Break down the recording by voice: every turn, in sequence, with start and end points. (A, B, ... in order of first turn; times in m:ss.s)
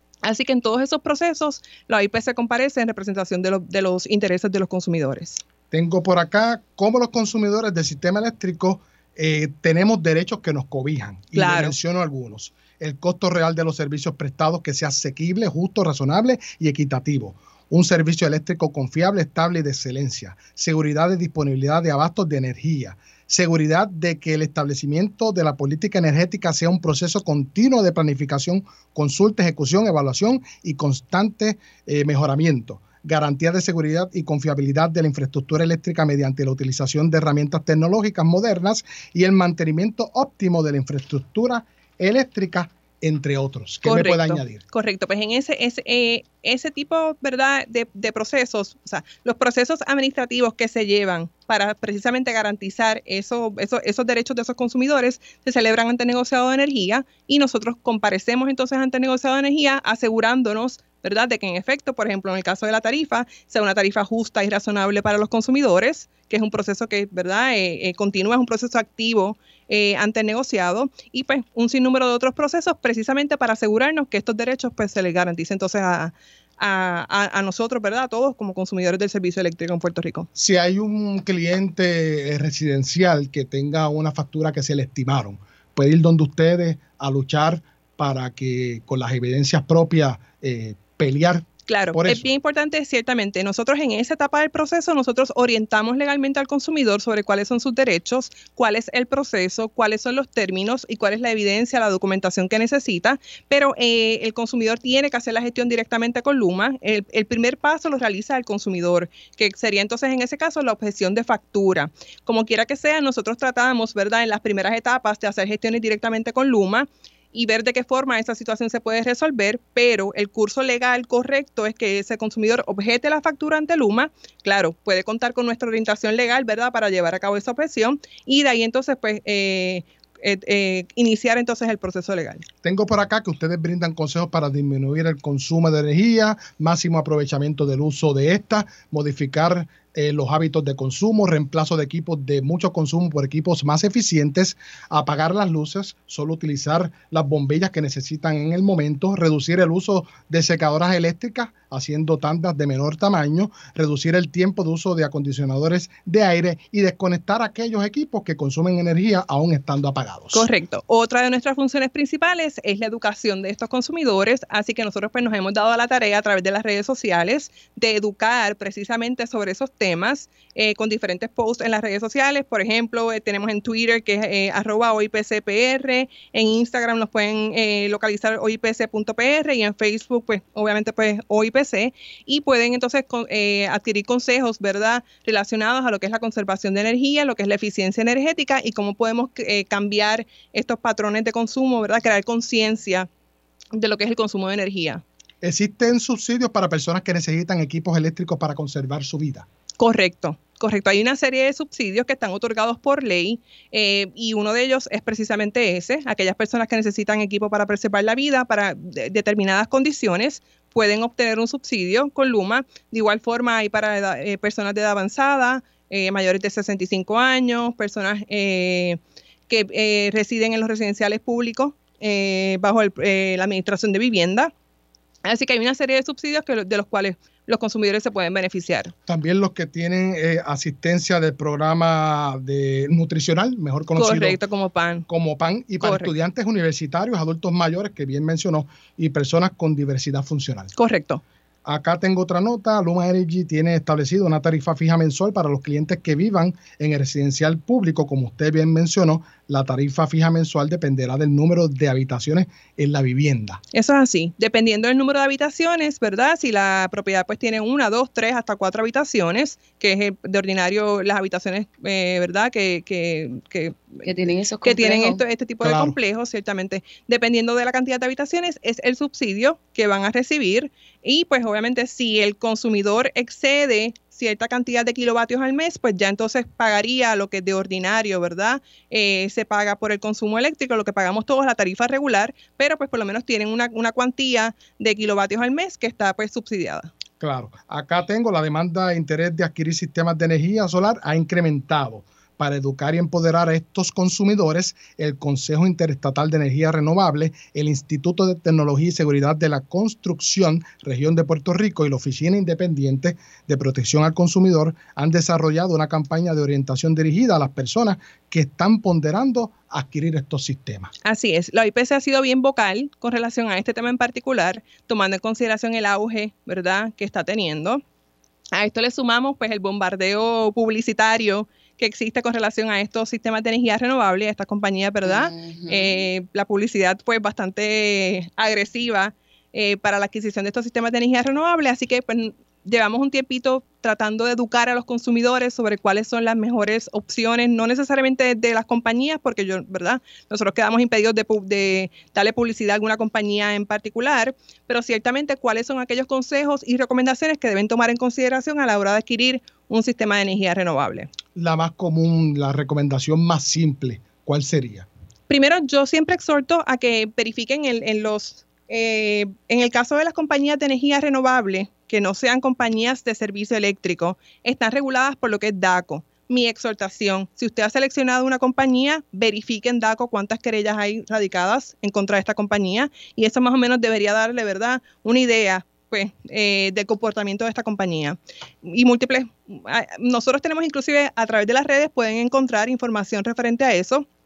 0:00.2-0:05.4 A
0:05.7-0:44.6 B
0:11.4-0:11.8 A
0:43.8-1:20.3 A
1:20.4-1:32.2 B
1:31.7-2:12.4 A
2:12.6-2:40.5 B
2:40.3-3:13.1 A
3:13.7-3:15.0 A
3:15.4-3:19.5 B
3:19.8-3:44.5 A
3:45.2-3:48.9 A
3:49.1-3:54.4 B
3:54.0-3:55.1 A
3:55.1-4:00.7 B
3:55.8-3:56.1 A
4:00.8-4:01.2 A
4:01.6-4:13.6 B
4:13.7-4:24.0 A
4:24.0-4:25.2 C
4:24.6-4:46.9 A
4:25.6-4:26.0 B
4:47.2-5:10.9 B
5:11.0-5:17.8 A
5:18.5-5:51.1 A
5:25.0-5:26.1 C
5:51.4-5:54.9 B
5:55.3-6:24.1 A